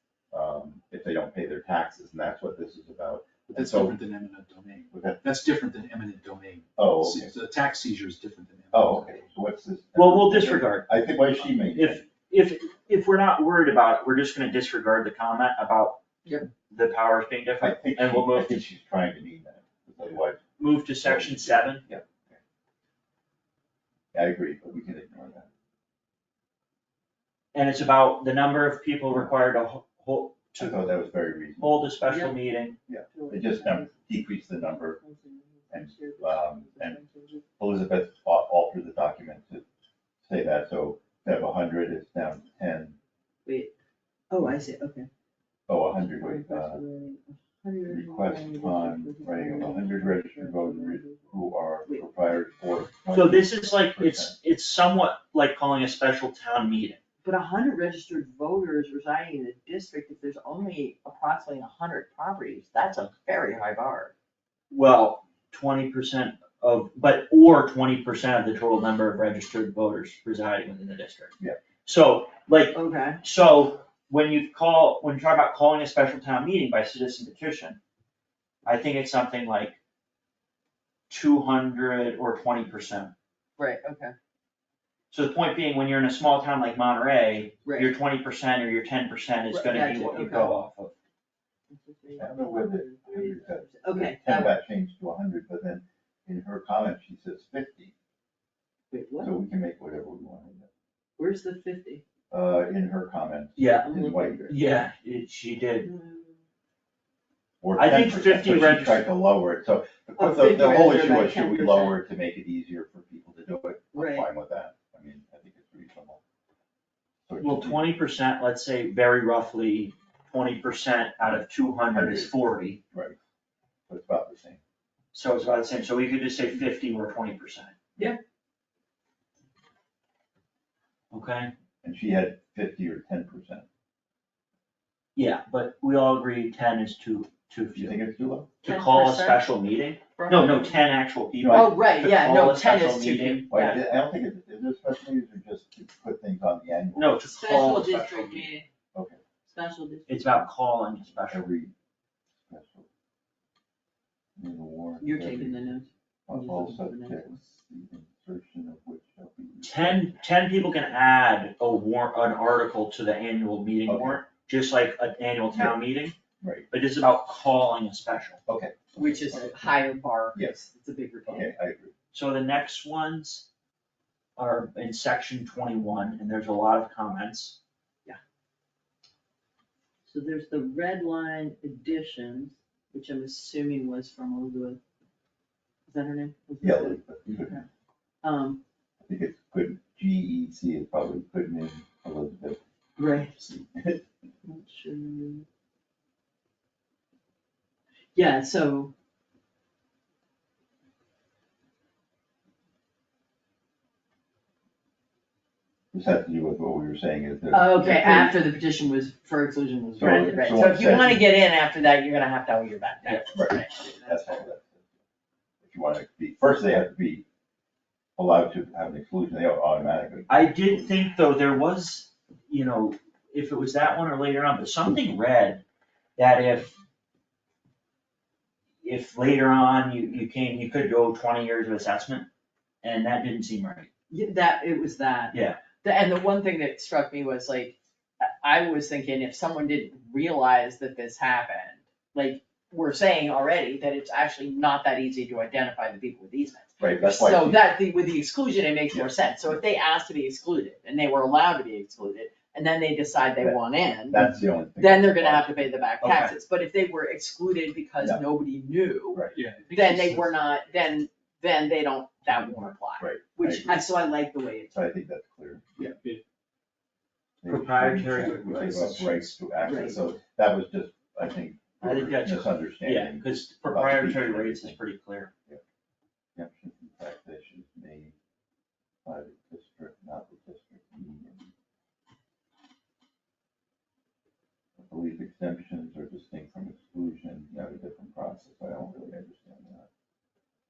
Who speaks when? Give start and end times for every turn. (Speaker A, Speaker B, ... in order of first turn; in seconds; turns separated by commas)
Speaker A: 0.3-4.0, Speaker B: 3.5-9.3, Speaker A: 4.9-5.2, Speaker A: 6.8-7.3, Speaker A: 8.7-12.0, Speaker C: 9.9-10.9, Speaker C: 11.6-16.0, Speaker C: 16.7-18.6, Speaker A: 17.6-22.4, Speaker C: 20.6-21.8, Speaker A: 24.1-25.5, Speaker C: 27.5-30.8, Speaker A: 30.6-31.8, Speaker C: 31.6-32.8, Speaker D: 32.0-32.4, Speaker A: 32.9-35.0, Speaker D: 33.1-37.4, Speaker A: 35.7-37.0, Speaker A: 37.6-39.6, Speaker A: 40.2-43.0, Speaker D: 43.5-43.7, Speaker D: 44.3-45.1, Speaker A: 45.7-46.8, Speaker D: 46.0-51.3, Speaker A: 47.9-54.3, Speaker C: 53.1-57.0, Speaker D: 57.2-64.1, Speaker C: 64.7-77.8, Speaker D: 72.7-73.2, Speaker C: 78.7-79.8, Speaker C: 81.1-83.1, Speaker D: 83.6-84.1, Speaker C: 85.1-90.9, Speaker D: 87.7-87.9, Speaker D: 89.5-90.6, Speaker D: 91.7-94.5, Speaker A: 92.2-97.9, Speaker D: 98.9-99.3, Speaker A: 99.2-100.7, Speaker D: 101.2-102.0, Speaker A: 102.3-104.5, Speaker C: 103.6-105.9, Speaker D: 103.8-104.6, Speaker D: 105.8-106.4, Speaker A: 107.6-116.2, Speaker C: 107.8-109.1, Speaker D: 110.2-112.0, Speaker D: 113.9-114.3, Speaker A: 117.3-117.9, Speaker C: 117.4-122.8, Speaker A: 121.9-122.3, Speaker A: 122.9-123.2, Speaker A: 123.9-124.6, Speaker C: 125.1-127.7, Speaker C: 131.1-131.5, Speaker A: 131.8-133.7, Speaker C: 135.2-138.0, Speaker A: 137.8-138.5, Speaker C: 138.6-143.8, Speaker D: 138.6-139.5, Speaker D: 140.2-140.8, Speaker A: 141.4-141.8, Speaker D: 141.5-143.9, Speaker A: 143.5-147.2, Speaker C: 146.9-148.5, Speaker D: 147.2-148.7, Speaker A: 148.9-149.2, Speaker D: 149.5-150.5, Speaker C: 150.1-151.4, Speaker A: 151.3-151.7, Speaker A: 152.4-152.9, Speaker A: 154.4-155.6, Speaker D: 155.0-157.4, Speaker A: 156.3-160.1, Speaker C: 159.6-166.2, Speaker A: 163.9-164.2, Speaker A: 165.5-165.8, Speaker A: 166.4-166.7, Speaker C: 166.7-168.4, Speaker A: 168.5-169.6, Speaker D: 168.9-171.5, Speaker A: 171.3-171.9, Speaker C: 172.1-173.5, Speaker C: 174.4-177.6, Speaker D: 180.1-184.8, Speaker D: 185.9-187.0, Speaker A: 186.6-187.7, Speaker D: 188.2-188.6, Speaker A: 189.1-192.6, Speaker D: 193.0-193.6, Speaker D: 194.4-195.4, Speaker D: 198.2-198.9, Speaker A: 205.9-208.4, Speaker D: 207.5-214.5, Speaker A: 210.0-211.2, Speaker A: 213.3-214.8, Speaker A: 215.6-217.2, Speaker A: 218.2-220.7, Speaker C: 220.3-225.6, Speaker C: 226.2-226.8, Speaker C: 228.8-232.3, Speaker C: 232.8-233.9, Speaker D: 234.1-254.2, Speaker C: 235.3-235.6, Speaker A: 246.8-247.7, Speaker A: 248.9-249.6, Speaker A: 253.4-255.8, Speaker D: 254.8-264.8, Speaker C: 256.0-256.3, Speaker A: 259.1-259.4, Speaker B: 259.3-260.4, Speaker A: 263.0-263.9, Speaker A: 264.7-265.6, Speaker B: 265.8-266.2, Speaker A: 267.4-274.8, Speaker C: 267.5-269.3, Speaker D: 269.6-270.0, Speaker C: 271.8-275.3, Speaker A: 276.4-278.1, Speaker A: 279.1-281.5, Speaker A: 284.8-289.9